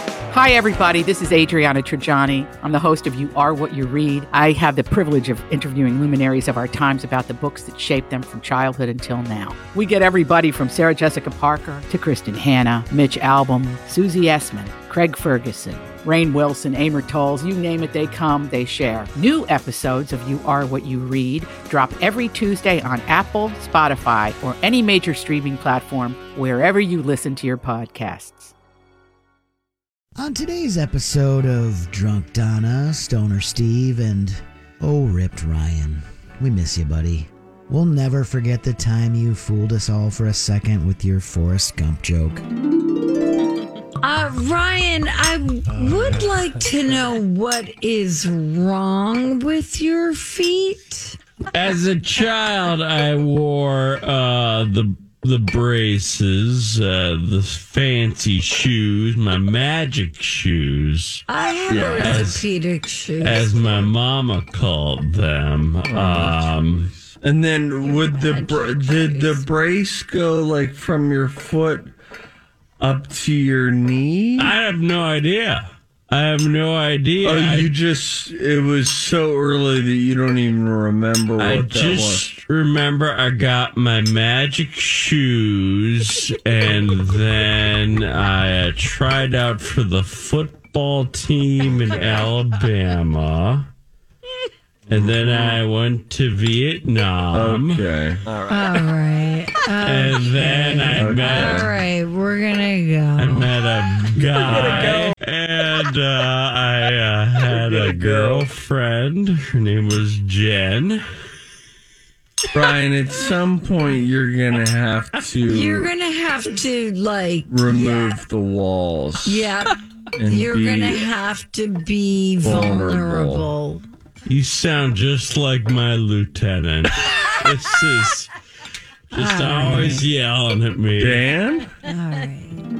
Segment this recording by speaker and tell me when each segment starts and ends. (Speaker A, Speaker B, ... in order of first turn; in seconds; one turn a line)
Speaker A: 0.3-28.5
Speaker B: 30.1-42.4
Speaker C: 44.0-51.2
Speaker D: 45.7-47.0
Speaker E: 51.5-61.2
Speaker C: 61.3-63.9
Speaker D: 61.7-62.4
Speaker E: 61.7-62.4
Speaker E: 63.2-66.9
Speaker D: 65.8-71.9
Speaker C: 67.8-69.5
Speaker D: 72.8-74.5
Speaker E: 74.4-77.7
Speaker D: 77.2-82.3
Speaker E: 81.4-93.7
Speaker D: 91.8-92.3
Speaker E: 94.9-97.8
Speaker D: 94.9-95.6
Speaker D: 97.3-98.8
Speaker C: 98.5-103.5
Speaker E: 99.8-101.7
Speaker D: 100.9-101.7
Speaker E: 103.2-111.0
Speaker D: 104.3-105.1
Speaker D: 107.5-108.5
Speaker D: 112.5-115.9
Speaker C: 115.4-118.2
Speaker D: 117.5-119.6
Speaker C: 119.2-123.8
Speaker D: 120.1-121.0
Speaker D: 122.4-123.5
Speaker E: 124.2-128.3
Speaker E: 129.1-131.2
Speaker C: 129.1-130.0
Speaker D: 131.0-131.7
Speaker C: 131.8-132.6